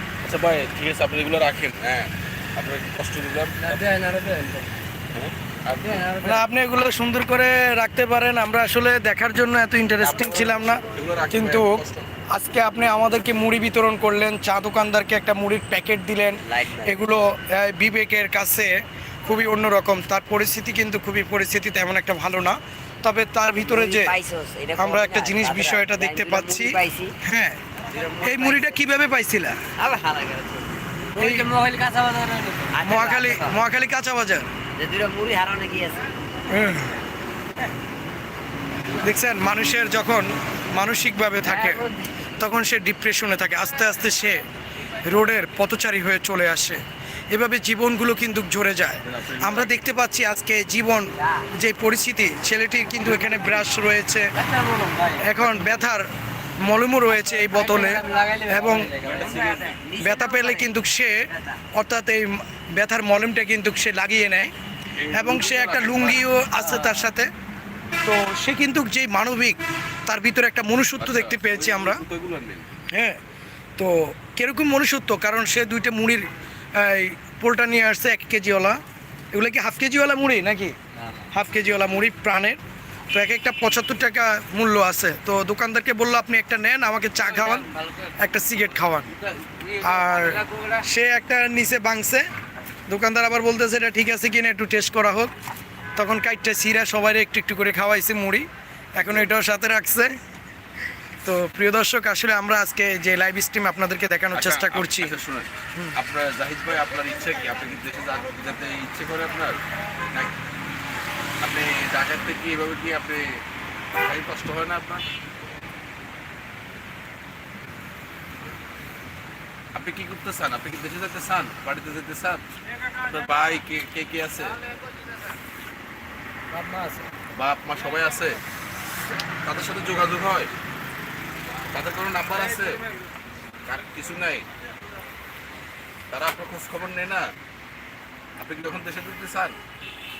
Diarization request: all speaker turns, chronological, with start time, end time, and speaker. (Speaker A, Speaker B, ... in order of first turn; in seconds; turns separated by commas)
Speaker A: 0.2-3.9, Speaker B: 3.6-4.7, Speaker A: 5.1-6.2, Speaker B: 5.8-6.5, Speaker C: 6.2-24.1, Speaker A: 10.0-12.1, Speaker D: 16.4-17.0, Speaker D: 23.6-27.2, Speaker C: 24.8-27.6, Speaker D: 27.9-28.8, Speaker C: 28.2-29.6, Speaker D: 29.8-30.9, Speaker B: 31.1-32.8, Speaker C: 31.2-31.5, Speaker D: 32.7-33.6, Speaker C: 32.8-34.5, Speaker D: 34.8-36.1, Speaker C: 36.5-37.0, Speaker C: 39.0-41.9, Speaker D: 41.4-42.3, Speaker C: 42.4-44.5, Speaker C: 45.0-54.3, Speaker A: 49.0-49.8, Speaker D: 51.2-51.5, Speaker B: 54.4-55.3, Speaker C: 55.2-56.1, Speaker A: 55.4-55.8, Speaker C: 56.6-58.9, Speaker B: 57.1-59.4, Speaker A: 59.0-59.8, Speaker D: 59.1-60.8, Speaker C: 60.0-61.2, Speaker D: 61.3-61.6, Speaker C: 61.7-64.5, Speaker A: 65.0-66.3, Speaker C: 65.1-67.3, Speaker B: 66.6-67.1, Speaker C: 68.0-72.0, Speaker A: 71.0-72.7, Speaker C: 72.9-73.2, Speaker C: 73.8-78.8, Speaker C: 79.3-80.8, Speaker C: 81.3-82.6, Speaker C: 83.1-89.1, Speaker D: 87.5-88.1, Speaker D: 89.5-90.8, Speaker C: 89.8-92.2, Speaker C: 92.9-95.3, Speaker C: 96.0-100.1, Speaker C: 101.2-105.2, Speaker A: 104.3-109.6, Speaker A: 111.4-113.4, Speaker A: 114.0-115.0, Speaker A: 119.7-122.4, Speaker A: 123.0-124.6, Speaker B: 126.5-127.1, Speaker A: 127.3-128.4, Speaker A: 129.4-130.5, Speaker A: 131.7-132.8, Speaker A: 133.7-134.5, Speaker A: 136.1-137.3, Speaker A: 138.4-139.6